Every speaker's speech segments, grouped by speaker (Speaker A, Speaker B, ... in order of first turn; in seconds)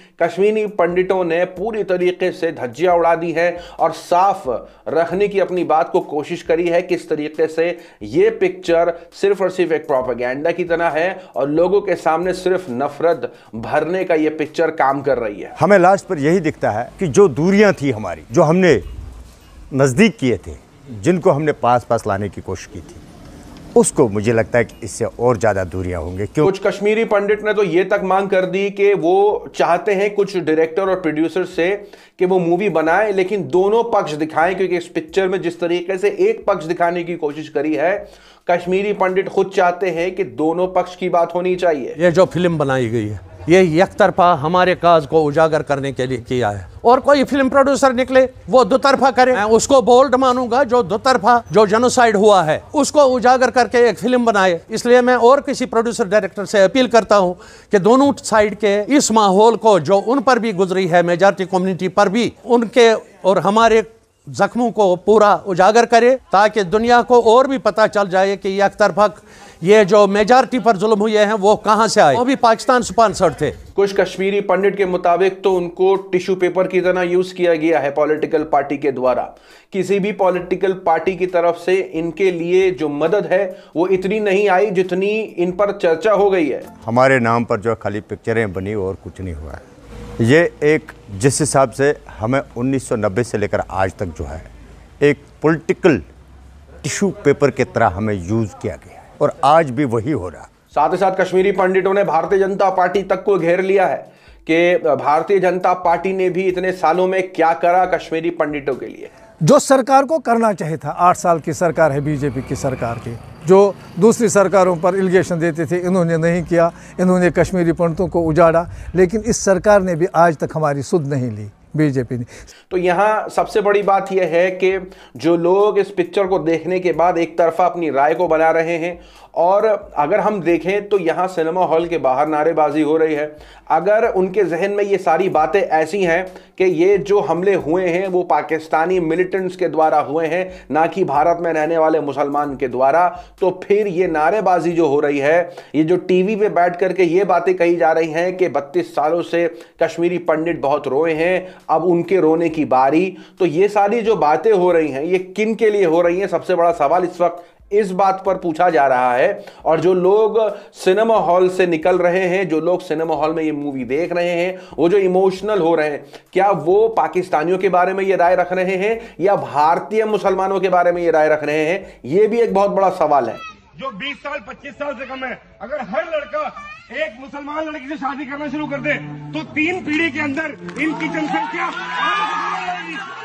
Speaker A: 0.2-15.5, 26.4-42.0, 73.8-86.7, 100.7-109.1, 122.7-173.4
Speaker B: 15.6-18.8, 19.7-23.0, 23.8-26.5, 86.8-89.6, 90.2-94.5, 95.0-96.0, 96.8-100.5
Speaker C: 42.0-73.6
Speaker D: 109.4-122.3
Speaker E: 173.8-183.0